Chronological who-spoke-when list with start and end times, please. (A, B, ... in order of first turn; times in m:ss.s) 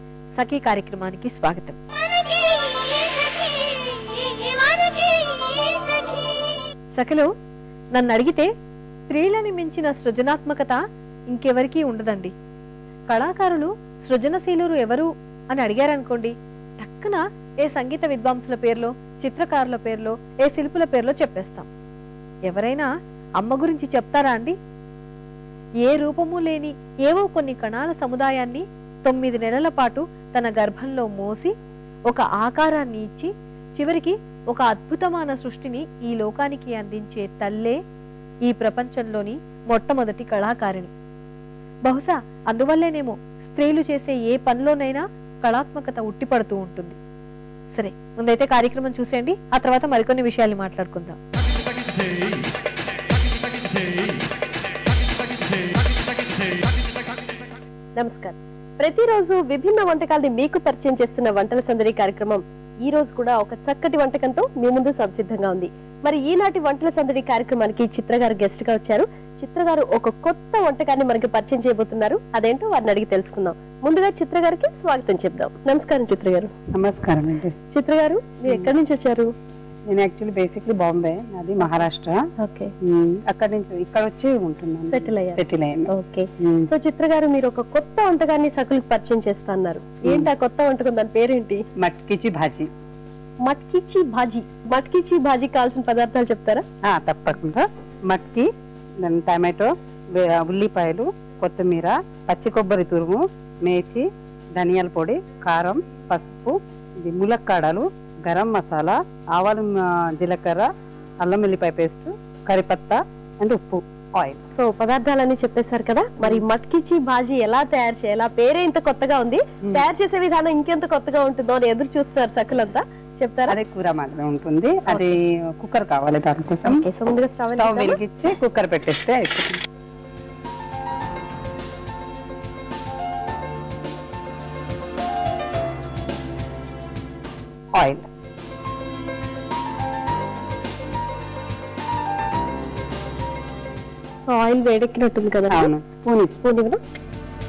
0:00.4-0:01.8 A
0:06.9-0:07.3 A
0:07.9-0:08.5 A
0:09.1-0:12.3 A
0:13.1-0:21.7 A
0:22.5-0:22.9 A
0:23.4-0:24.5 A
0:25.8-0:31.5 A
0:32.1-0:37.8 A
0:38.4-0:40.9 A
0:41.8-0:47.0 A
0:47.7-0:51.2 A
0:58.0-1:16.5 B
1:16.7-1:17.5 C
1:17.7-1:19.3 B
1:19.9-1:22.2 C
1:22.4-1:22.7 B
1:22.8-1:26.7 C
1:24.9-1:31.6 B
1:31.8-1:32.7 C
1:33.4-1:36.6 B
1:36.9-1:38.5 C
1:39.0-1:50.7 C
1:51.2-1:54.4 C
1:54.5-2:03.6 B
2:03.5-2:06.8 C
2:04.9-2:05.2 B
2:06.6-2:08.0 B
2:07.4-2:09.6 C
2:17.8-2:18.0 C
2:24.2-2:25.7 B
2:25.5-2:26.4 C
2:26.4-2:26.8 B